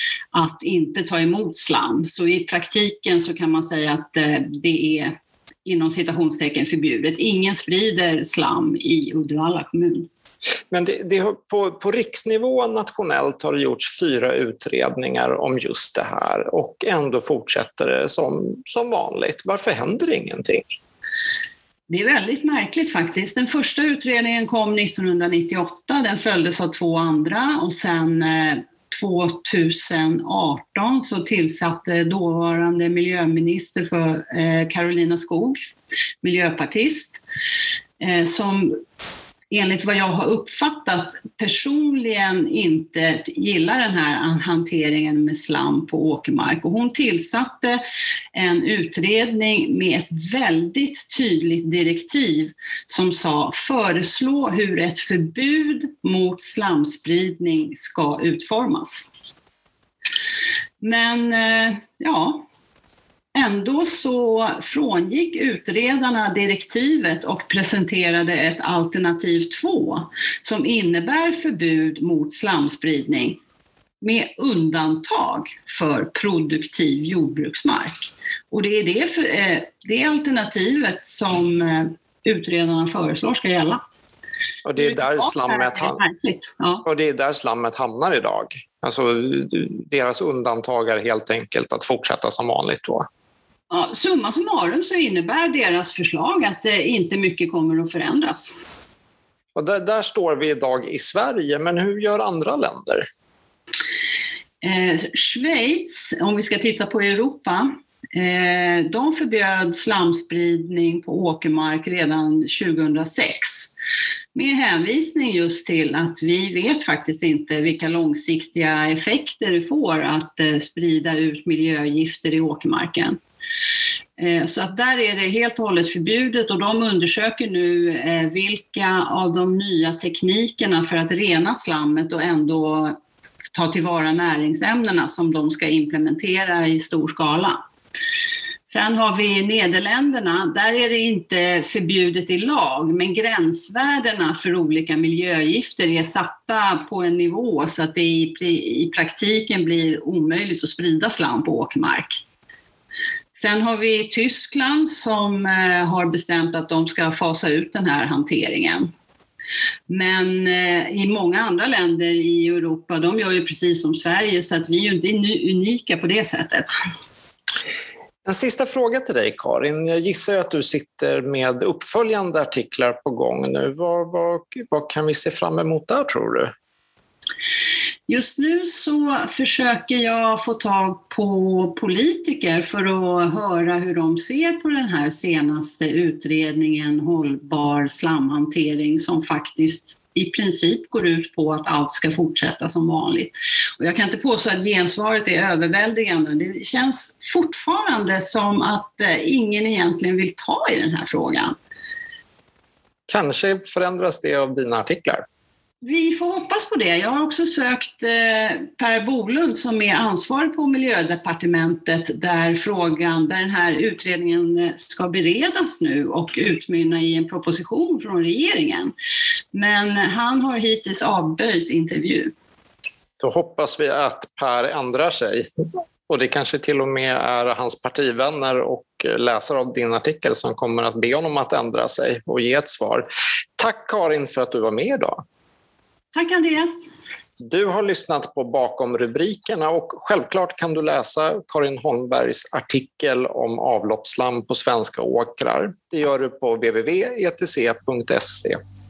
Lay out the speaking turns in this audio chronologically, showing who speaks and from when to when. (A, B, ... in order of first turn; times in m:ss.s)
0:00.3-0:10.1 A
0:10.7-0:20.6 B
0:21.9-0:35.7 A
0:36.2-0:37.2 A
0:38.0-0:38.8 A
0:39.5-0:47.8 A
0:48.3-0:59.1 A
1:00.8-1:02.4 A
1:03.4-1:13.4 A
1:14.0-1:23.8 A
1:24.6-1:26.0 B
1:24.8-1:26.9 A
1:26.9-1:33.1 B
1:33.7-1:38.5 A
1:39.6-1:43.1 B
1:44.6-1:53.7 A
1:54.4-2:03.2 A
2:04.2-2:13.0 A
2:13.5-2:17.6 A
2:18.7-2:32.2 A
2:33.3-2:38.9 A
2:39.9-2:46.7 A
2:48.2-2:56.5 B
2:58.1-3:21.5 A
3:23.1-3:25.2 B
3:25.8-3:38.9 A
3:39.5-3:42.3 A
3:43.2-3:45.5 B
3:46.1-3:53.0 B
3:53.6-3:55.2 B
3:56.1-3:56.7 A
3:57.4-4:08.6 B